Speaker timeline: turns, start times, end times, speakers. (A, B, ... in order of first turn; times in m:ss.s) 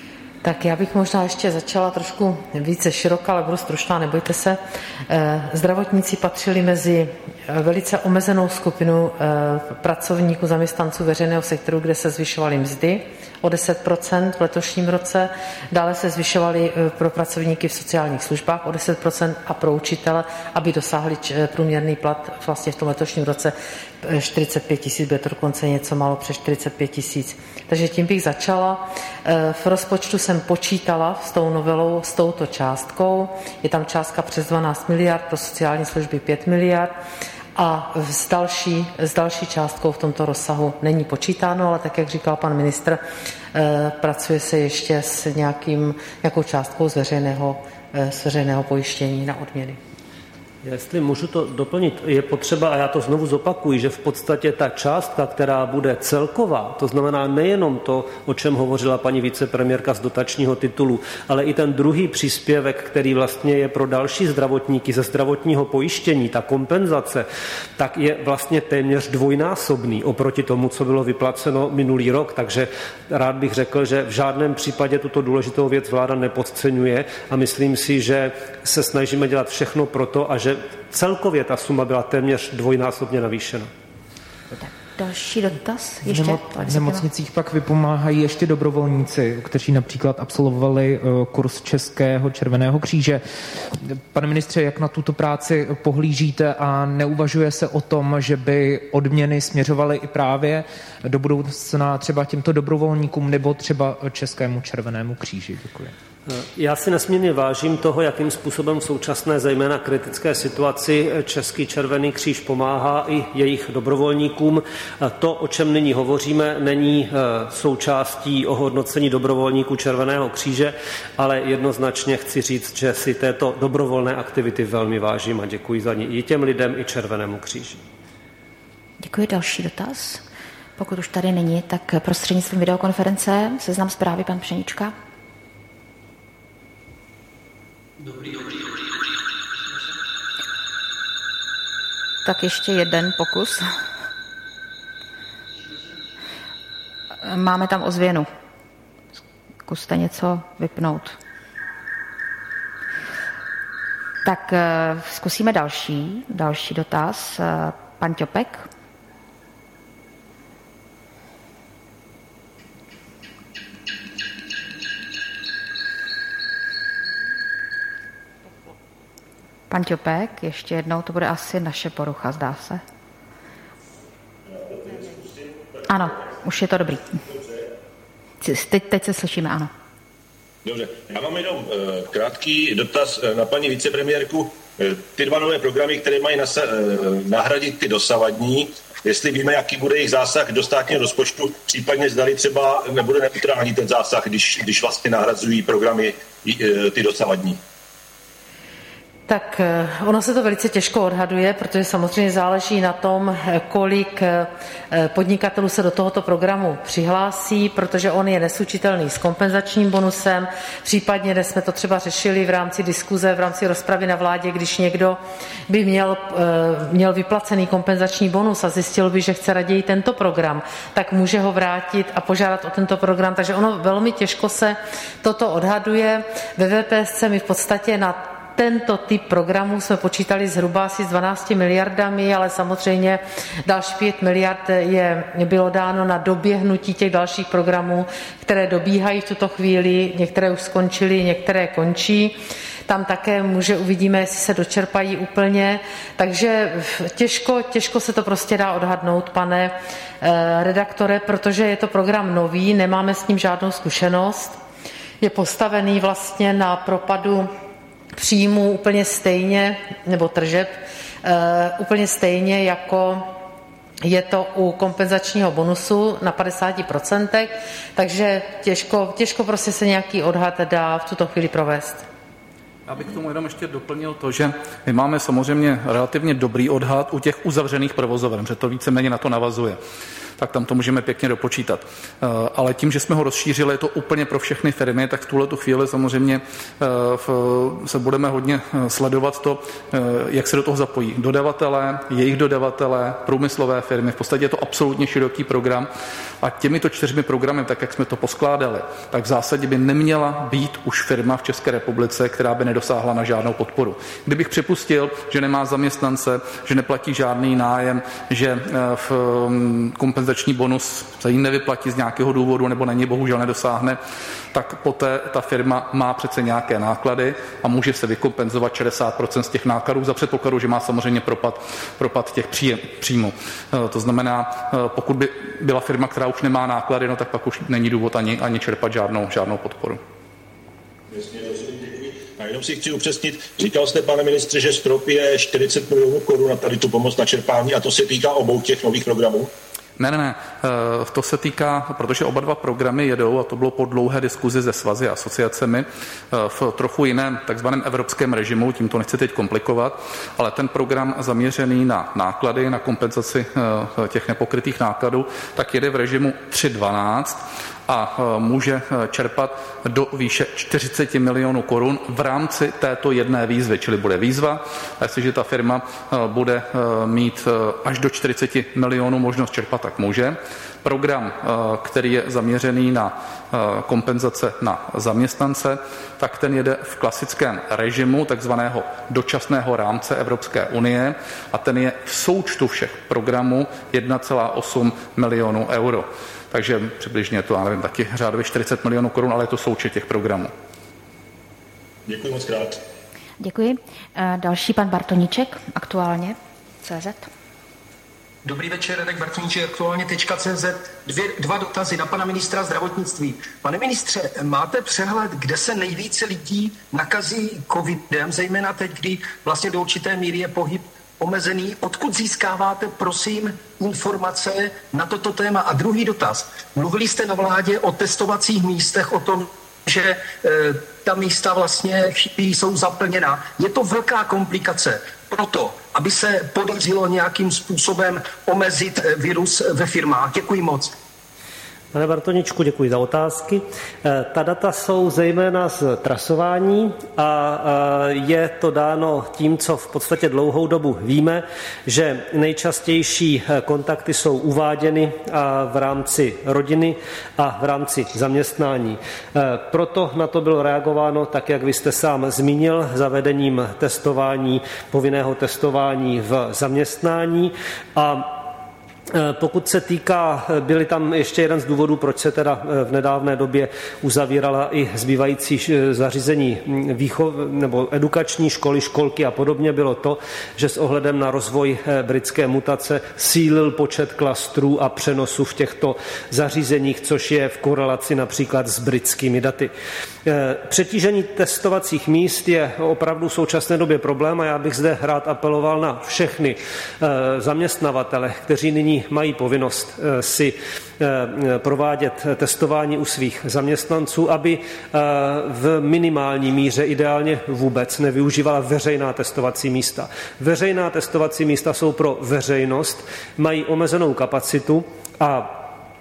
0:00.4-0:36.9 A
0:37.6-0:43.0 A
0:43.5-0:49.8 A
0:50.6-1:07.3 B
1:07.8-1:23.7 B
1:24.6-1:27.0 C
1:26.0-1:45.9 D
1:46.3-2:07.8 B
2:09.0-2:10.2 C
2:10.8-2:14.9 C
2:22.2-2:23.7 C
2:27.2-2:28.3 C
2:29.6-2:31.2 C
2:34.2-2:38.7 C
2:49.7-2:52.8 C
2:54.5-2:55.8 E
2:55.9-2:57.2 C
2:57.3-2:57.5 E
2:58.4-2:59.7 C
3:00.6-3:17.6 E
3:19.3-4:14.6 A
4:15.2-4:17.5 A
4:18.2-4:23.3 A
4:24.0-4:32.0 A
4:32.9-4:39.8 F
4:40.4-4:55.9 F
4:56.4-5:14.0 F
5:14.5-5:30.0 F
5:31.1-5:39.5 E
5:40.0-6:30.5 F
6:32.0-6:32.8 E
6:33.4-6:37.3 C
6:38.4-7:10.9 G
7:11.9-7:38.5 B
7:39.1-7:59.7 B
8:00.2-8:25.6 B